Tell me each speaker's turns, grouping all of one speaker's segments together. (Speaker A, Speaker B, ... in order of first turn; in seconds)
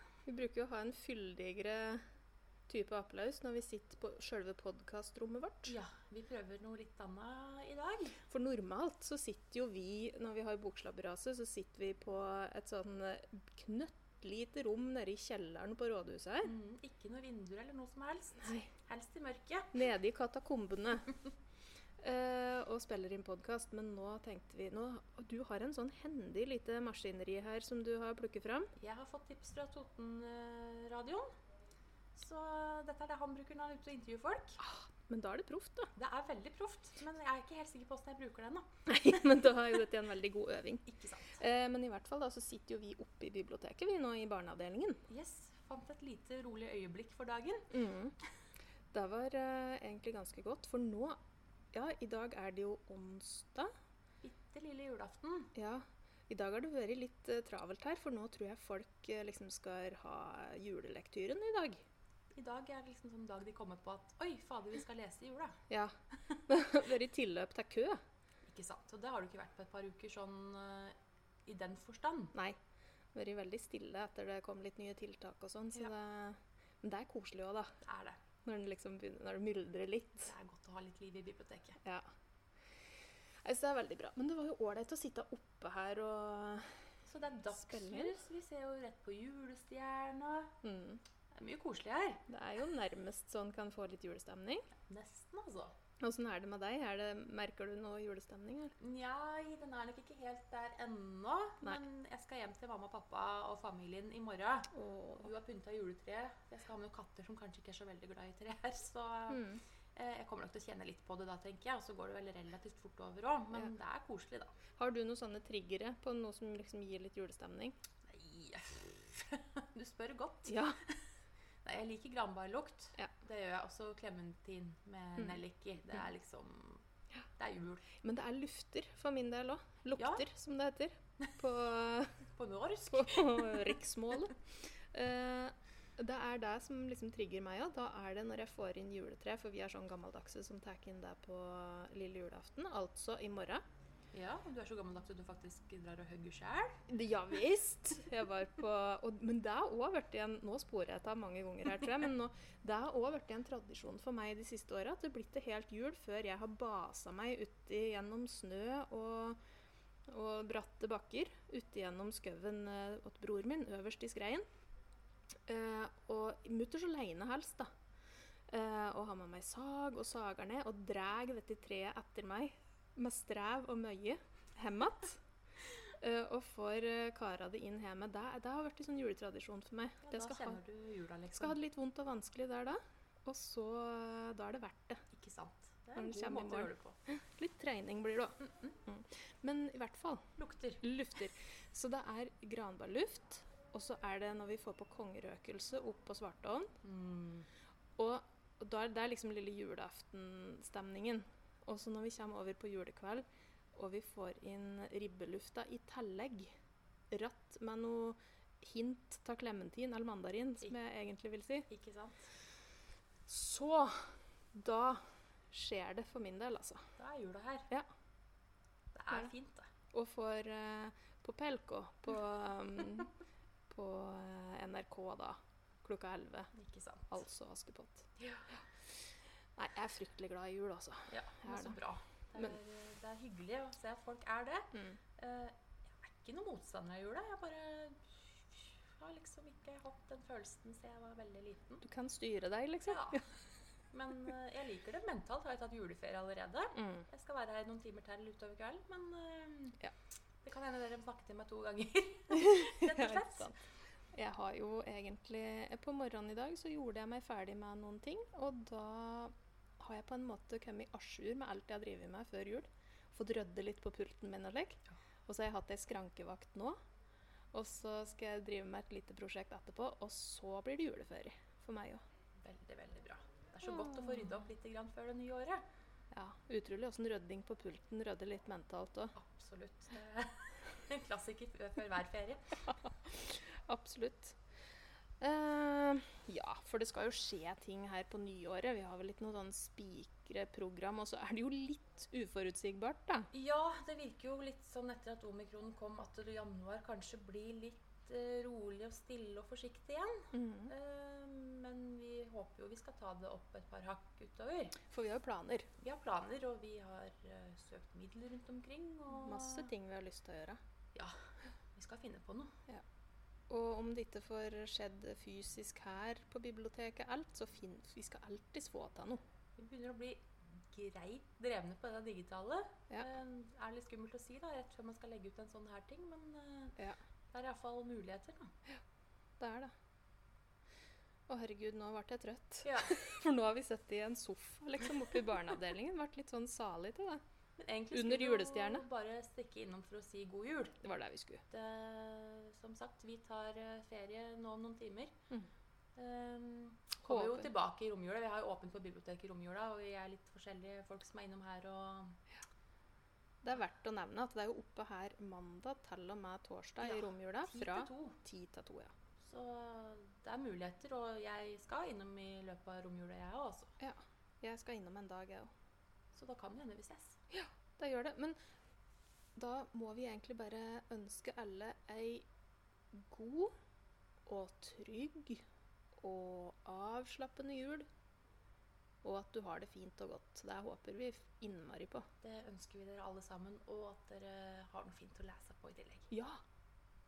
Speaker A: 0.3-2.0, 2.7-5.8, 8.3-16.6, 19.7-21.1, 22.0-28.7, 34.6-35.9, 38.9-40.8, 41.4-45.0, 47.7-48.1, 48.9-51.2, 51.7-53.7, 55.5-61.8, 66.5-68.0, 73.1-77.7, 78.5-80.3, 83.4-86.7, 87.5-88.2, 90.6-91.0, 92.3-94.7, 96.0-98.8, 104.7-105.3, 109.3-109.6, 114.8-117.8, 120.5-120.8, 128.0-132.2, 132.9-134.4, 134.9-143.6, 146.9-159.4, 160.1-164.4, 165.5-167.7, 168.5-175.2, 176.0-180.6, 181.3-185.0, 186.0-190.2, 190.8-196.7, 198.0-206.5, 207.1-211.7, 213.3-216.8, 219.9-223.1, 223.7-226.5, 227.1-228.1, 229.6-231.8, 241.8-243.2, 246.8-247.1, 252.3-253.6, 254.1-266.8, 267.5-272.0, 273.7-274.3, 276.1-279.1, 282.7-284.4, 285.2-293.3, 300.3-300.7, 304.9-305.7, 309.1-310.6, 313.5-319.2, 329.4-329.7, 331.3-337.2, 337.9-338.9, 340.8-341.4, 347.1-347.5, 353.4-358.9, 363.8-365.5, 367.3-368.4, 369.4-372.3, 372.9-373.5, 374.3-375.4, 376.0-377.9, 379.0-382.1, 386.1-386.4
Speaker B: 5.7-8.2, 16.4-19.7, 28.8-31.3, 32.1-34.6, 36.0-38.7, 40.9-41.4, 45.1-47.7, 54.2-55.5, 62.3-65.6, 68.5-71.0, 71.5-72.3, 77.8-78.2, 80.2-81.8, 87.1-90.5, 91.3-92.2, 94.8-95.7, 98.8-114.5, 118.1-120.9, 121.6-126.8, 127.4-127.9, 129.9-130.2, 132.3-133.7, 144.1-146.8, 180.0-181.6, 185.1-187.0, 188.4-188.8, 190.4-190.8, 196.8-197.5, 211.7-212.3, 217.0-217.7, 218.9-219.7, 226.5-227.2, 231.1-241.8, 242.8-243.2, 243.9-249.8, 250.4-253.5, 272.4-275.6, 279.1-282.6, 293.3-304.8, 305.8-309.7, 311.8-312.5, 319.6-326.8, 327.3-328.5, 332.6-333.0, 337.6-340.8, 341.5-345.1, 346.0-352.2, 356.8-358.2, 359.2-363.7, 366.1-367.2, 382.2-386.1